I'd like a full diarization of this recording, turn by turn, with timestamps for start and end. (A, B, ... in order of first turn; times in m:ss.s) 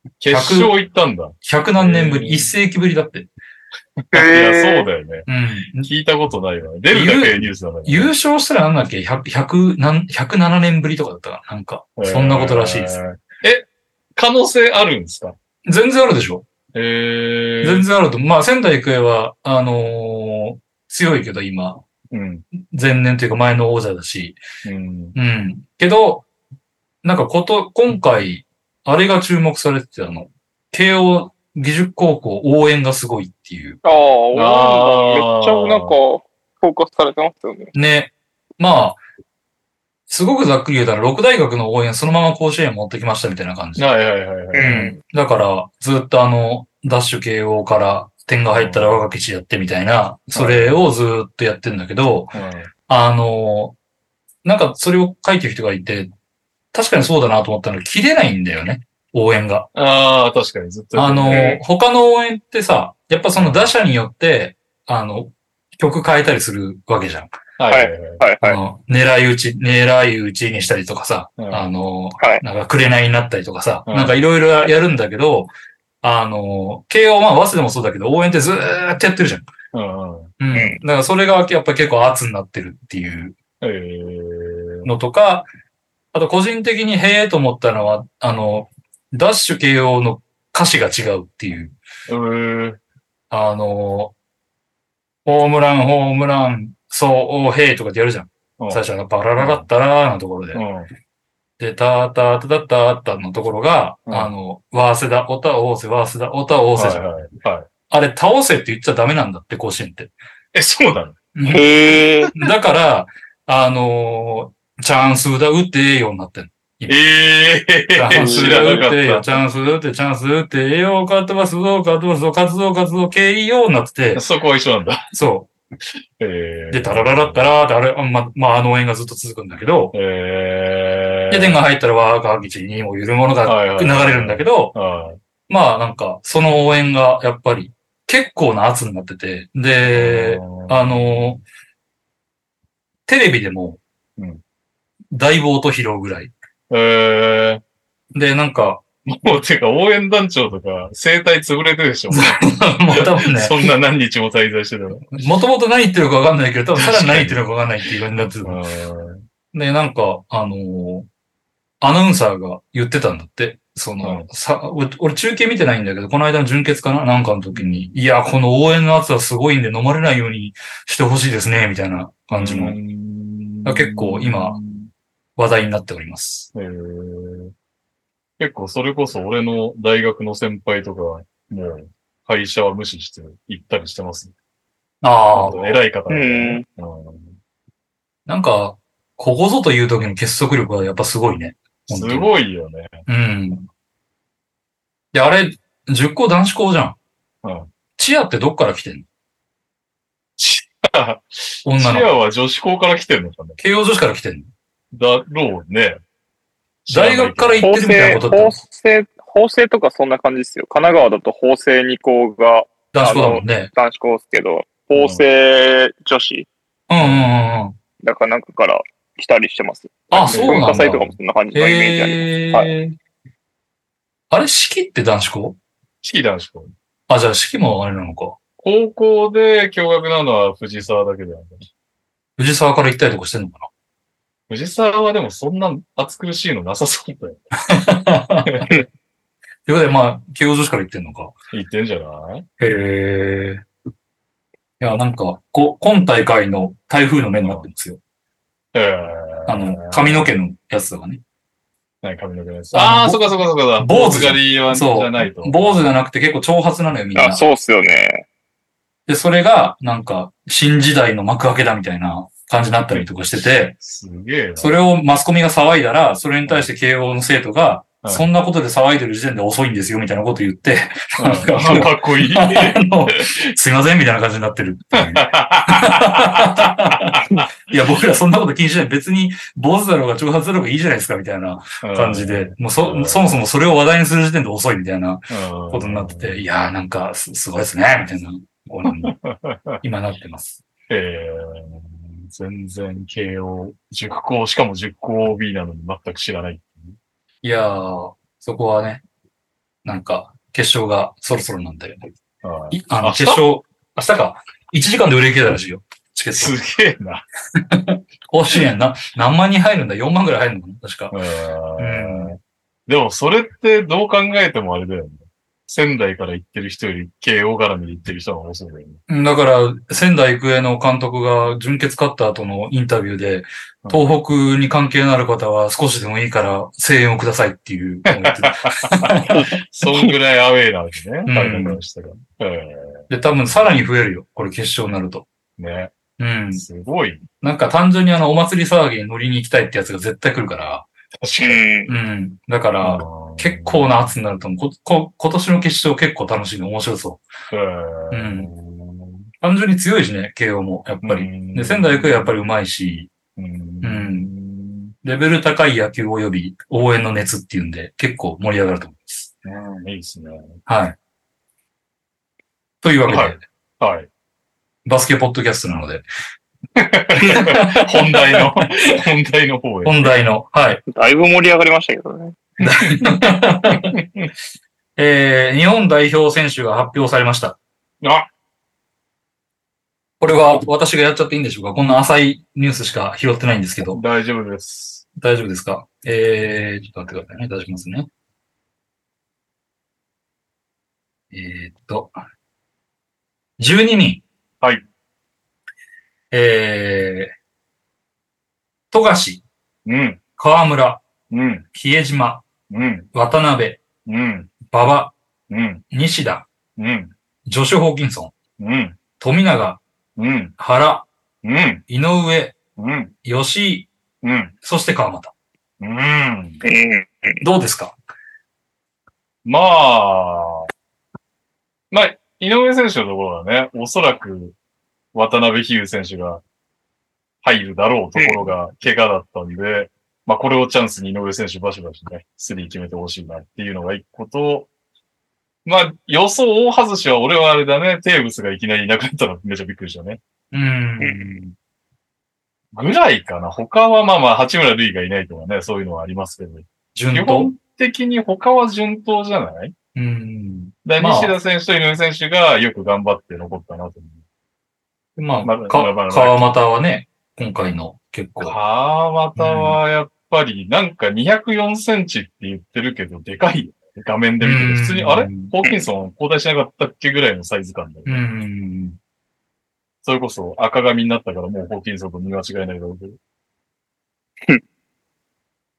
0:00.2-0:02.5 A
0:00.3-0:00.7 B
0:01.4-0:03.3 B
0:04.0-0:05.3 A
0:04.1-0:04.9 C
0:05.3-0:05.9 B
0:05.8-0:08.1 A
0:06.9-0:13.0 B
0:12.0-0:15.4 A
0:15.6-0:16.4 B
0:16.7-0:17.9 A
0:17.6-0:21.8 B
0:22.1-0:22.4 A
0:22.6-0:24.4 B
0:24.6-0:25.2 A
0:25.1-0:26.3 B
0:27.0-0:33.8 B
0:33.8-0:37.7 C
0:34.3-0:36.0 A
0:37.7-0:39.0 B
0:40.1-0:43.9 B
0:43.8-0:44.8 A
0:44.5-0:45.0 C
0:44.6-0:52.4 B
0:48.5-0:49.0 A
0:50.3-0:50.8 A
0:52.3-0:52.7 A
0:52.9-0:53.8 B
0:54.4-0:56.1 B
0:56.7-0:59.7 B
0:59.7-1:01.6 A
1:00.9-1:07.3 B
1:01.3-1:01.6 C
1:03.3-1:03.7 A
1:07.6-1:08.2 A
1:07.7-1:08.6 C
1:08.4-1:19.5 B
1:11.4-1:11.7 A
1:13.9-1:14.2 A
1:19.7-1:20.3 A
1:20.4-1:23.4 B
1:20.5-1:20.8 C
1:23.6-1:24.9 A
1:24.8-1:25.5 B
1:26.1-1:31.7 B
1:32.1-1:32.8 A
1:33.3-1:34.1 B
1:35.2-1:40.6 B
1:39.4-1:39.6 A
1:40.5-1:40.9 A
1:41.6-1:47.0 B
1:46.8-1:47.7 A
1:47.9-1:50.1 B
1:50.5-1:51.2 A
1:51.3-1:51.7 B
1:51.4-1:52.3 C
1:52.3-1:57.1 B
1:56.9-1:59.4 A
1:57.9-2:04.2 B
1:58.1-1:58.8 C
2:04.1-2:05.1 A
2:05.1-2:05.5 B
2:06.2-2:07.5 A
2:06.7-2:10.0 B
2:09.9-2:11.6 A
2:11.3-2:14.8 B
2:13.4-2:15.2 A
2:15.5-2:21.4 B
2:19.8-2:21.4 A
2:23.1-2:23.8 B
2:24.2-2:24.4 A
2:25.1-2:26.3 B
2:26.7-2:27.6 A
2:28.1-2:28.8 B
2:29.0-2:35.2 A
2:32.1-2:33.7 B
2:35.1-2:38.6 B
2:36.8-2:37.4 A
2:38.4-2:39.2 A
2:39.5-2:41.1 B
2:41.8-2:52.8 B
2:44.0-2:44.3 A
2:47.5-2:47.9 A
2:52.3-2:54.9 A
2:53.6-2:54.6 B
2:55.4-2:56.5 B
2:56.5-2:57.5 A
2:58.4-3:04.3 A
3:05.0-3:05.8 B
3:05.3-3:07.4 A
3:06.1-3:06.6 C
3:08.2-3:12.3 B
3:11.9-3:13.0 A
3:13.1-3:13.7 B
3:15.1-3:17.0 B
3:17.4-3:17.7 A
3:18.0-3:19.0 B
3:20.4-3:23.6 A
3:21.6-3:22.1 B
3:23.6-3:24.5 B
3:24.9-3:26.0 A
3:26.8-3:27.8 A
3:26.9-3:28.6 B
3:27.6-3:36.5 C
3:32.9-3:33.7 B
3:34.9-3:35.2 A
3:36.9-3:37.7 B
3:37.0-3:37.3 A
3:38.0-3:42.7 C
3:40.1-3:42.9 B
3:40.3-3:40.7 A
3:44.3-3:45.6 B
3:46.0-3:46.7 A
3:47.1-3:48.4 B
3:48.6-3:51.6 A
3:52.4-3:53.7 B
3:54.5-3:57.4 A
3:57.7-3:58.7 B
3:58.4-3:58.8 A
3:59.6-4:01.3 B
4:01.5-4:02.5 A
4:02.6-4:03.6 B
4:04.8-4:08.0 B
4:07.4-4:07.7 A
4:08.7-4:10.3 A
4:09.5-4:11.2 B
4:12.0-4:15.9 A
4:12.7-4:13.2 B
4:13.8-4:17.4 B
4:17.1-4:18.2 C
4:19.1-4:23.8 B
4:22.9-4:24.8 A
4:24.6-4:49.2 B
4:28.0-4:28.3 A
4:31.2-4:33.3 A
4:34.9-4:37.4 A
4:41.8-4:43.4 A
4:45.3-4:46.4 A
4:48.9-4:49.8 A
4:49.8-4:50.6 B
4:50.9-4:57.0 A
4:57.4-4:59.0 B
4:59.8-5:02.0 B
5:02.4-5:03.4 A
5:02.7-5:06.6 B
5:06.4-5:07.2 A
5:07.6-5:11.2 B
5:11.1-5:19.0 A
5:11.8-5:12.3 B
5:19.1-5:29.5 B
5:23.8-5:24.1 A
5:28.1-5:33.1 A
5:31.3-5:31.8 B
5:33.1-5:35.3 B
5:35.6-5:35.9 A
5:36.2-5:36.6 B
5:36.5-5:37.3 A
5:37.4-5:40.9 B
5:41.2-5:41.6 A
5:41.4-5:41.9 C
5:41.9-5:47.2 B
5:42.8-5:44.1 A
5:47.5-5:49.2 A
5:48.1-5:48.5 B
5:49.4-5:53.1 B
5:51.0-5:52.4 A
5:53.4-5:54.9 A
5:53.8-5:54.3 B
5:55.0-5:59.3 B
5:59.4-6:00.6 A
6:00.7-6:01.0 B
6:02.8-6:03.4 B
6:03.1-6:04.1 A
6:04.8-6:06.0 B
6:06.8-6:10.2 A
6:07.2-6:08.6 B
6:09.8-6:10.8 B
6:10.9-6:12.4 C
6:12.6-6:14.0 B
6:12.6-6:13.2 A
6:13.7-6:14.3 A
6:15.0-6:17.6 B
6:18.0-6:18.3 A
6:20.2-6:24.0 B
6:23.8-6:25.0 A
6:25.2-6:28.1 B
6:31.3-6:32.2 B
6:33.6-6:34.2 B
6:36.3-6:37.3 B
6:38.9-6:39.4 B
6:39.8-6:40.2 A
6:40.4-6:41.0 B
6:41.3-6:41.6 A
6:41.7-6:42.4 B
6:42.7-6:43.1 A
6:43.1-6:43.8 B
6:44.0-6:44.5 A
6:44.7-6:45.1 B
6:45.5-6:45.8 A
6:45.9-6:46.5 B
6:46.8-6:47.1 A
6:47.4-6:48.3 B
6:48.6-6:49.0 A
6:49.2-6:49.8 B
6:50.2-6:50.5 A
6:50.6-6:51.1 B
6:51.4-6:51.8 A
6:51.9-6:52.6 B
6:52.8-6:53.1 A
6:53.2-6:53.9 B
6:54.2-6:54.5 A
6:54.6-6:55.3 B
6:55.8-6:56.6 A
6:56.6-6:57.4 C
6:57.4-6:57.9 B
6:59.4-7:00.7 A
7:01.9-7:04.6 A
7:05.1-7:06.4 A
7:07.4-7:14.7 A
7:08.2-7:08.5 C
7:15.6-7:20.2 A
7:20.5-7:21.5 B
7:21.0-7:21.4 C
7:22.7-7:29.7 A
7:26.9-7:27.5 B
7:29.9-7:31.4 B
7:30.8-7:34.2 A
7:35.2-7:38.6 B
7:35.4-7:36.5 A
7:38.4-7:48.2 A
7:39.4-7:39.8 B
7:44.4-7:45.5 B
7:48.0-7:49.0 B
7:50.0-7:53.2 A